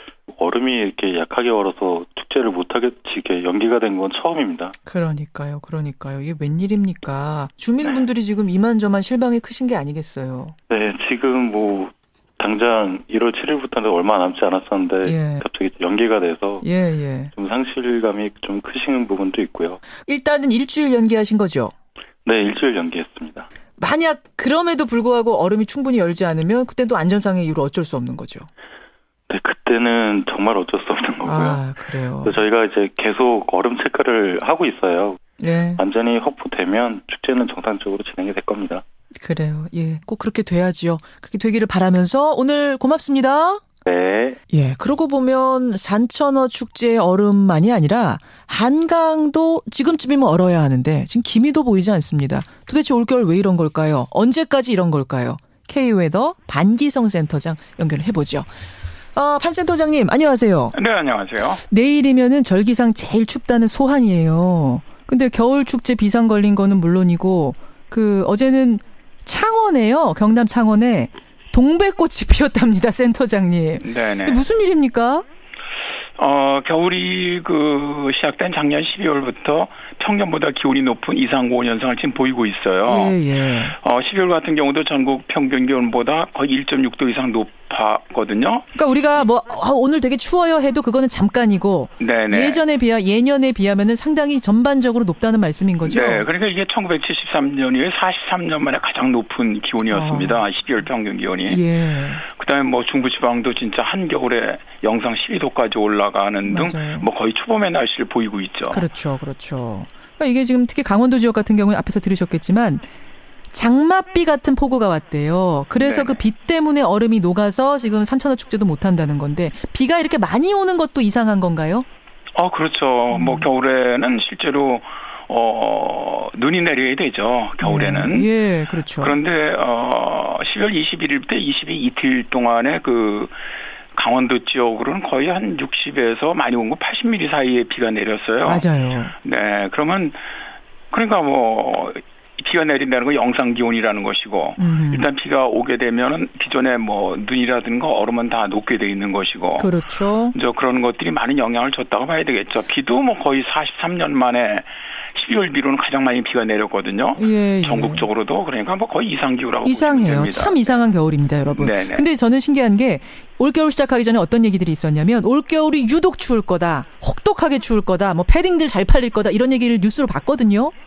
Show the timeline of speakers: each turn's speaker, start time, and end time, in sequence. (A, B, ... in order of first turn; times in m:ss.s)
0:00.3-0:04.7 A
0:04.9-0:10.6 B
0:10.7-0:16.6 A
0:15.0-0:15.4 B
0:16.6-0:17.3 B
0:17.3-0:19.8 A
0:20.1-0:21.7 B
0:22.2-0:23.5 A
0:23.8-0:28.5 B
0:29.3-0:31.6 A
0:31.2-0:32.4 B
0:32.2-0:35.2 A
0:35.4-0:35.8 B
0:35.8-0:38.8 A
0:39.2-0:43.6 B
0:43.9-0:44.4 A
0:44.5-0:58.5 B
0:59.2-1:00.8 B
1:00.7-1:01.6 C
1:01.7-1:15.2 B
1:13.8-1:14.5 C
1:16.2-1:23.2 C
1:22.9-1:23.8 B
1:23.7-1:28.6 C
1:28.8-1:36.3 B
1:32.0-1:32.6 C
1:35.8-1:41.6 C
1:39.9-1:40.4 B
1:41.5-1:42.2 B
1:42.3-1:48.9 C
1:46.5-1:47.1 B
1:48.7-1:52.8 B
1:53.5-2:01.9 B
1:55.8-1:56.2 C
2:02.4-2:08.3 C
2:03.1-2:03.5 B
2:07.6-2:09.2 B
2:09.0-2:13.3 C
2:13.9-2:18.6 C
2:18.5-2:19.1 B
2:19.2-2:20.2 C
2:20.9-2:29.7 C
2:24.6-2:25.1 B
2:29.6-2:30.3 B
2:30.3-2:40.8 C
2:37.2-2:38.1 B
2:39.6-2:50.7 B
2:41.5-2:42.1 C